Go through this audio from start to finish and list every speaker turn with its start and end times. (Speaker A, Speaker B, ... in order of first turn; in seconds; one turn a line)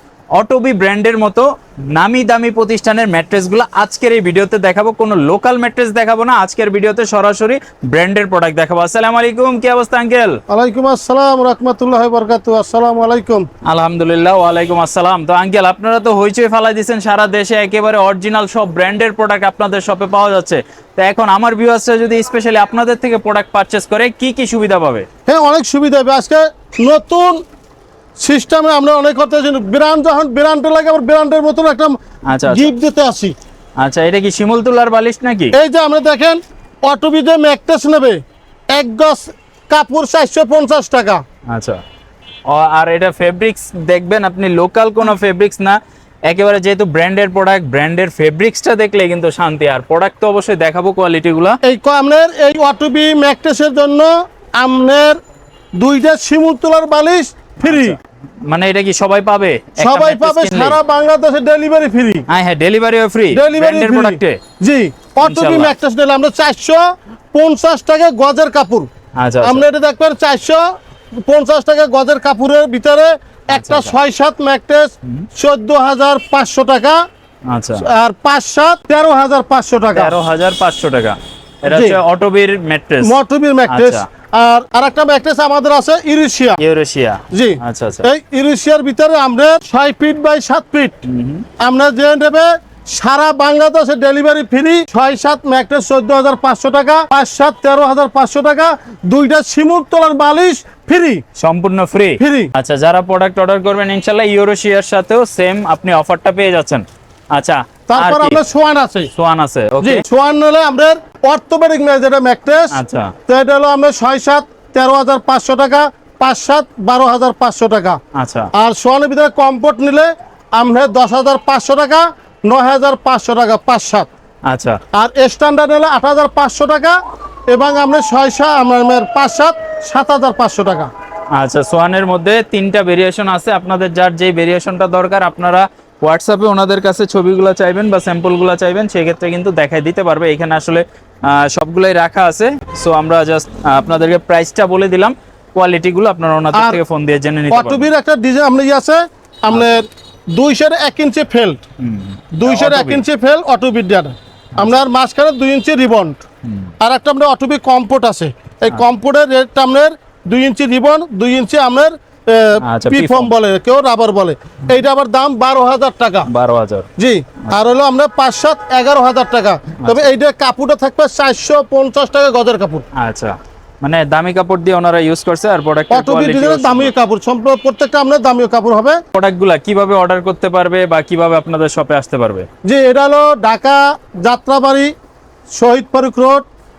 Speaker A: 0.3-10.4
Speaker B: 10.5-13.5
Speaker A: 13.6-25.1
Speaker B: 25.3-27.4
Speaker B: 28.2-33.3
Speaker A: 32.3-32.7
Speaker A: 33.8-35.5
Speaker B: 35.5-38.2
Speaker B: 38.7-41.2
Speaker A: 41.5-41.8
Speaker A: 42.5-51.6
Speaker B: 51.6-55.2
Speaker B: 55.8-58.0
Speaker A: 57.6-60.8
Speaker B: 59.8-62.2
Speaker A: 62.3-64.4
Speaker B: 63.3-68.9
Speaker A: 65.2-65.8
Speaker A: 69.2-69.6
Speaker B: 69.4-70.6
Speaker B: 71.2-77.0
Speaker A: 73.5-74.0
Speaker A: 77.5-77.9
Speaker B: 77.8-80.1
Speaker A: 79.9-83.1
Speaker B: 81.7-82.0
Speaker B: 83.0-86.6
Speaker A: 83.7-84.0
Speaker A: 86.6-88.1
Speaker B: 87.3-90.9
Speaker A: 91.0-91.5
Speaker B: 91.6-101.2
Speaker A: 101.3-108.4
Speaker B: 102.2-102.5
Speaker B: 107.9-109.1
Speaker A: 109.1-110.0
Speaker B: 109.8-112.8
Speaker A: 112.7-113.1
Speaker B: 113.3-118.0
Speaker A: 118.1-118.5
Speaker B: 118.5-124.1
Speaker A: 124.5-124.8
Speaker B: 124.9-127.0
Speaker B: 127.5-130.9
Speaker A: 131.3-147.9
Speaker B: 146.5-146.8
Speaker B: 147.5-151.6
Speaker A: 149.5-149.8
Speaker A: 151.8-153.0
Speaker B: 152.3-156.2
Speaker A: 156.4-156.7
Speaker B: 156.8-166.3
Speaker A: 162.6-163.3
Speaker A: 166.3-166.9
Speaker B: 167.0-172.8
Speaker A: 169.8-170.1
Speaker A: 172.9-176.9
Speaker B: 175.9-179.0
Speaker A: 179.1-182.5
Speaker B: 182.6-184.9
Speaker B: 185.5-186.4